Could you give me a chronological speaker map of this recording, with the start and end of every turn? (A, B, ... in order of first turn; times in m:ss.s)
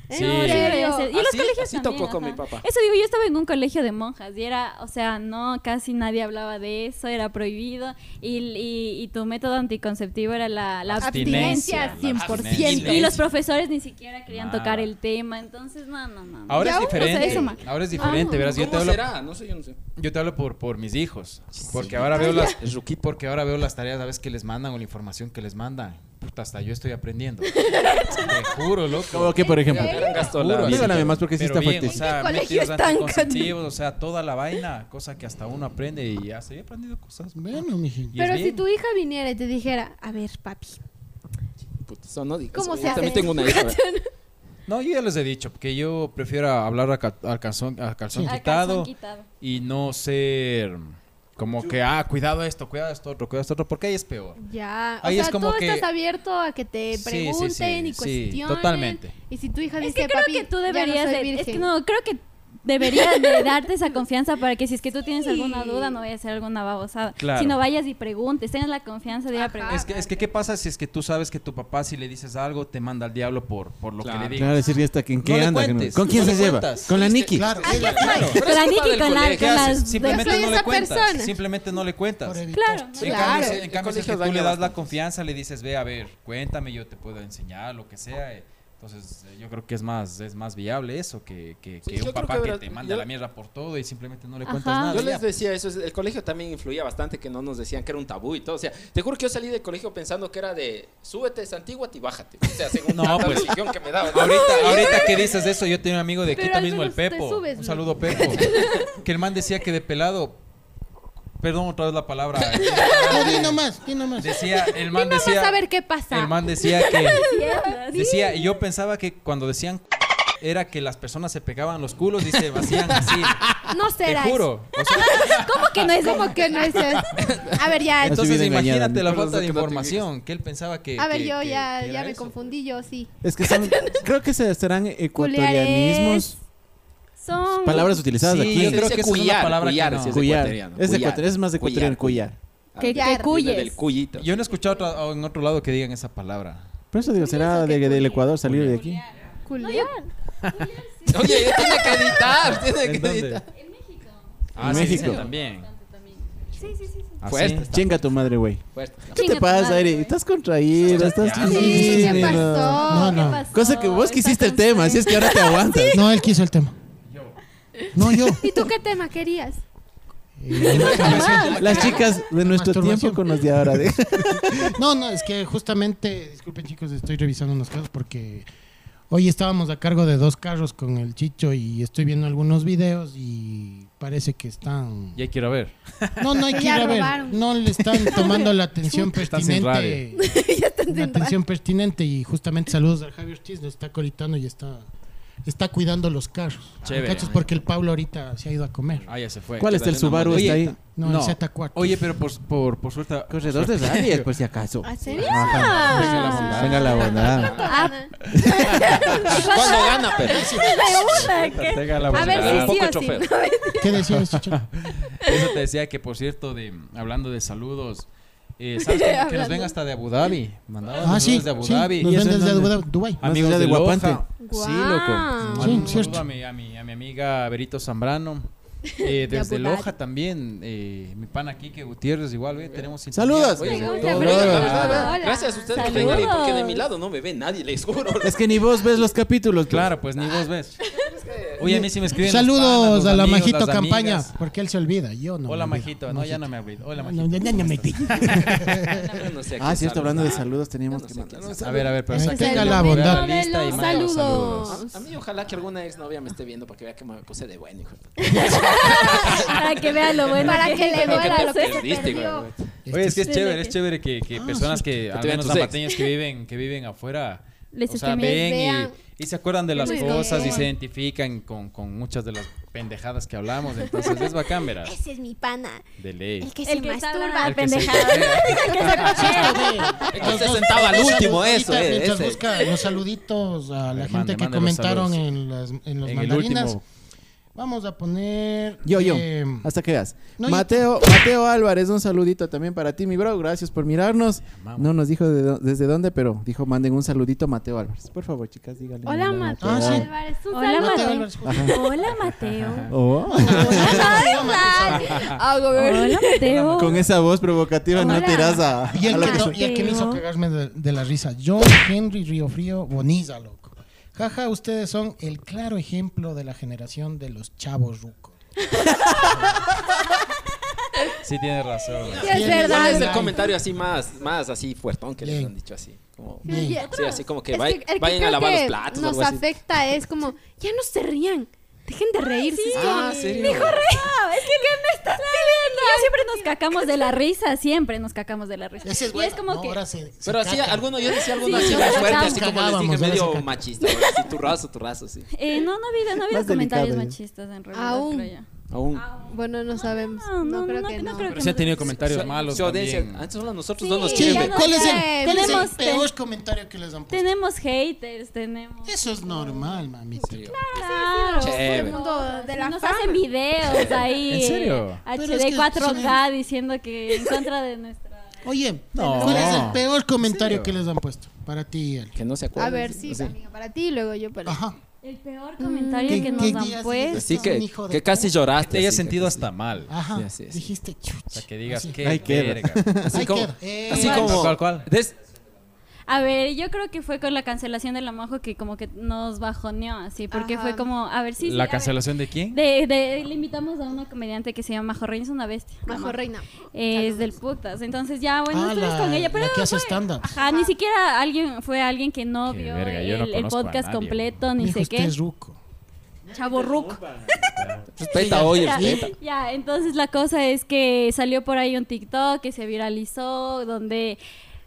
0:00.1-0:01.1 A
0:00.1-0:00.8 B
0:00.1-0:12.0 C
0:01.0-0:02.6 D
0:10.9-0:13.2 B
0:11.0-0:13.2 A
0:12.1-0:13.1 D
0:12.6-0:18.5 C
0:14.3-0:14.9 B
0:16.5-0:19.0 B
0:16.6-0:18.3 A
0:18.3-0:19.8 D
0:20.0-0:29.4 B
0:21.6-0:22.6 D
0:22.1-0:22.6 A
0:27.6-0:28.3 A
0:29.1-0:30.1 E
0:29.4-0:30.3 C
0:29.6-0:31.2 D
0:29.8-0:30.3 A
0:30.2-0:37.4 B
0:30.6-0:32.1 E
0:31.9-0:33.6 A
0:37.4-0:38.2 F
0:38.1-0:38.6 B
0:38.2-0:40.8 A
0:41.9-0:43.8 D
0:42.5-0:44.1 A
0:42.9-0:43.2 C
0:44.7-0:54.4 B
0:48.2-0:49.3 C
0:54.4-1:01.7 A
0:55.0-0:55.9 B
0:56.9-0:59.2 B
0:59.8-1:10.0 C
1:02.8-1:03.6 A
1:05.2-1:06.0 A
1:07.2-1:07.6 B
1:09.3-1:10.0 A
1:09.7-1:14.6 B
1:14.0-1:14.5 D
1:14.3-1:17.6 E
1:15.2-1:17.0 B
1:16.2-1:19.8 D
1:17.4-1:18.4 F
1:17.6-1:18.4 A
1:17.6-1:20.5 C
1:18.1-1:18.4 B
1:19.3-1:22.5 B
1:20.0-1:21.4 A
1:22.2-1:23.4 F
1:22.5-1:23.3 C
1:23.0-1:35.3 B
1:23.0-1:23.6 A
1:23.3-1:24.9 D
1:31.9-1:33.1 D
1:34.4-1:35.0 C
1:34.9-1:45.1 D
1:42.9-1:43.6 B
1:44.1-1:50.4 B
1:44.1-1:45.5 A
1:46.2-1:48.9 A
1:51.4-1:53.6 B
1:52.4-1:53.0 D
1:53.1-1:54.4 F
1:54.2-1:57.2 B
1:54.7-1:58.6 A
1:57.1-1:58.1 C
1:57.9-1:59.8 B
2:00.4-2:07.0 B
2:02.6-2:03.6 D
2:03.7-2:08.3 A
2:07.2-2:07.6 D
2:08.0-2:12.4 B
2:08.1-2:09.1 E
2:09.0-2:10.1 D
2:11.0-2:14.1 A
2:13.2-2:16.4 E
2:15.2-2:16.4 A
2:17.2-2:18.0 C
2:17.6-2:18.8 E
2:18.2-2:20.3 B
2:18.5-2:24.3 D
2:20.1-2:22.4 E
2:22.8-2:23.7 C
2:22.8-2:23.6 A
2:24.2-2:26.7 B
2:26.9-2:29.0 E
2:27.1-2:29.0 C
2:28.4-2:29.0 B
2:29.5-2:30.1 A
2:29.6-2:29.9 C
2:30.5-2:32.0 C
2:31.1-2:33.5 D
2:31.6-2:33.4 B
2:33.5-2:37.2 C
2:34.6-2:35.3 D
2:34.6-2:35.7 B
2:34.6-2:35.3 E
2:37.2-2:37.7 B
2:37.2-2:38.0 D
2:37.6-2:46.0 E
2:38.7-2:39.1 D
2:39.1-2:40.2 C
2:40.8-2:42.8 B
2:41.4-2:43.5 A
2:41.4-2:43.5 F
2:42.8-2:46.0 C
2:44.9-2:46.0 A
2:45.9-2:46.8 F
2:47.1-2:47.4 B
2:47.9-2:48.5 F
2:48.3-2:49.6 A
2:50.4-2:58.5 F
2:50.6-2:52.0 C
2:50.6-2:52.2 B
2:51.6-2:54.8 E
2:59.1-3:05.2 F
3:05.2-3:06.7 B
3:06.2-3:14.9 F
3:06.6-3:09.1 A
3:09.1-3:10.0 B
3:10.1-3:11.4 A
3:15.4-3:19.1 F
3:16.8-3:17.5 B
3:19.1-3:24.3 B
3:19.6-3:20.8 E
3:19.6-3:20.8 D
3:20.9-3:22.0 F
3:23.3-3:27.7 E
3:24.8-3:34.1 A
3:25.1-3:28.0 D
3:25.2-3:27.4 B
3:25.6-3:26.6 C
3:27.6-3:28.0 C
3:28.2-3:29.4 B
3:28.4-3:28.7 E
3:28.7-3:32.6 C
3:29.2-3:30.8 D
3:30.2-3:30.9 F
3:31.1-3:32.8 B
3:32.0-3:33.3 D
3:33.8-3:34.7 F
3:34.1-3:42.2 B
3:35.2-3:35.5 A
3:38.8-3:39.8 A
3:41.0-3:43.3 F
3:41.2-3:46.0 E
3:43.2-3:44.3 B
3:44.4-3:46.0 A
3:45.3-3:55.2 B
3:45.5-3:46.2 F
3:49.0-3:49.9 A
3:52.5-3:52.9 D
3:53.1-3:54.8 E
3:53.5-3:58.4 D
3:53.6-3:56.3 A
3:53.9-3:56.8 C
3:58.2-4:00.0 E
3:59.7-4:00.8 B
4:00.9-4:01.9 D
4:01.6-4:04.3 B
4:01.7-4:09.1 F
4:05.5-4:09.0 B
4:08.9-4:11.9 D
4:09.6-4:11.9 E
4:11.4-4:14.8 B
4:12.1-4:13.3 F
4:12.1-4:14.9 A
4:13.7-4:19.6 D
4:18.2-4:19.6 A
4:18.3-4:18.8 F
4:18.7-4:22.2 C
4:20.3-4:22.5 A
4:20.5-4:22.7 D
4:22.9-4:23.3 F
4:22.9-4:35.0 B
4:23.2-4:23.8 C
4:24.3-4:25.0 F
4:25.1-4:25.8 D
4:27.7-4:28.4 C
4:28.2-4:29.0 A
4:29.7-4:30.7 A
4:29.7-4:30.7 C
4:34.0-4:34.3 A
4:34.8-4:35.9 A
4:36.0-4:36.5 B
4:36.4-4:40.3 A
4:36.6-4:40.0 C
4:37.4-4:39.4 B
4:38.9-4:46.8 F
4:40.1-4:42.4 D
4:43.9-4:45.2 B
4:46.0-4:46.8 B
4:47.6-4:49.7 F
4:48.8-5:00.1 E
4:50.4-4:50.9 F
4:54.4-4:54.9 B
4:59.1-5:01.3 A
4:59.6-5:00.1 F
5:00.5-5:02.9 C
5:00.7-5:01.8 F
5:01.4-5:01.8 E
5:02.0-5:03.0 B
5:02.9-5:04.2 E
5:03.3-5:05.3 F
5:03.3-5:06.4 A
5:03.5-5:04.6 C
5:04.9-5:07.1 B
5:05.7-5:07.0 C
5:06.7-5:09.6 E
5:07.9-5:10.2 A
5:08.0-5:08.6 C
5:08.9-5:18.4 F
5:09.3-5:10.1 C
5:21.2-5:23.1 B
5:22.1-5:29.4 D
5:22.2-5:23.5 A
5:22.2-5:23.5 F
5:25.2-5:25.5 F
5:26.4-5:26.9 F
5:26.4-5:26.9 A
5:26.5-5:27.3 C
5:27.5-5:36.9 A
5:32.4-5:39.8 C
5:32.7-5:33.8 D
5:38.8-5:43.7 F
5:40.2-5:45.3 D
5:41.4-5:42.2 A
5:41.4-5:42.4 C
5:43.8-5:44.3 A
5:45.3-5:52.6 C
5:46.3-5:47.2 E
5:47.7-5:48.3 A
5:48.7-5:49.1 D
5:49.2-5:51.4 A
5:51.2-5:53.3 B
5:52.0-5:54.6 D
5:53.8-5:56.0 A
5:54.1-5:56.1 C
5:54.1-5:57.3 F
5:57.1-5:58.9 C
5:58.8-6:00.6 F
5:59.3-5:59.7 A
6:00.3-6:00.6 D
6:00.5-6:04.2 A
6:00.7-6:08.4 C
6:01.4-6:02.0 D
6:03.6-6:04.0 D
6:04.3-6:05.0 B
6:05.1-6:06.2 F
6:07.2-6:07.4 A
6:08.4-6:12.2 F
6:08.9-6:10.8 B
6:09.0-6:09.5 C
6:09.1-6:09.6 A
6:12.2-6:13.4 D
6:12.6-6:14.6 A
6:14.4-6:14.8 F
6:15.0-6:17.5 C
6:15.6-6:16.6 A
6:16.1-6:18.3 F
6:17.1-6:19.5 D
6:18.6-6:19.9 B
6:19.9-6:22.0 F
6:20.1-6:20.7 D
6:21.3-6:22.8 B
6:22.0-6:23.2 E
6:23.0-6:25.2 D
6:23.1-6:24.6 F
6:23.9-6:24.9 B
6:26.1-6:32.0 C
6:30.3-6:30.9 A
6:31.4-6:32.6 B
6:32.5-6:36.2 C
6:35.9-6:37.3 A
6:36.7-6:45.2 C
6:38.5-6:40.4 F
6:40.2-6:40.7 A
6:42.5-6:44.4 B
6:44.6-6:45.6 F
6:46.3-6:47.0 C
6:46.3-6:47.8 E
6:47.6-6:47.9 B
6:48.0-6:49.1 D
6:48.1-6:49.1 F
6:48.3-6:54.2 C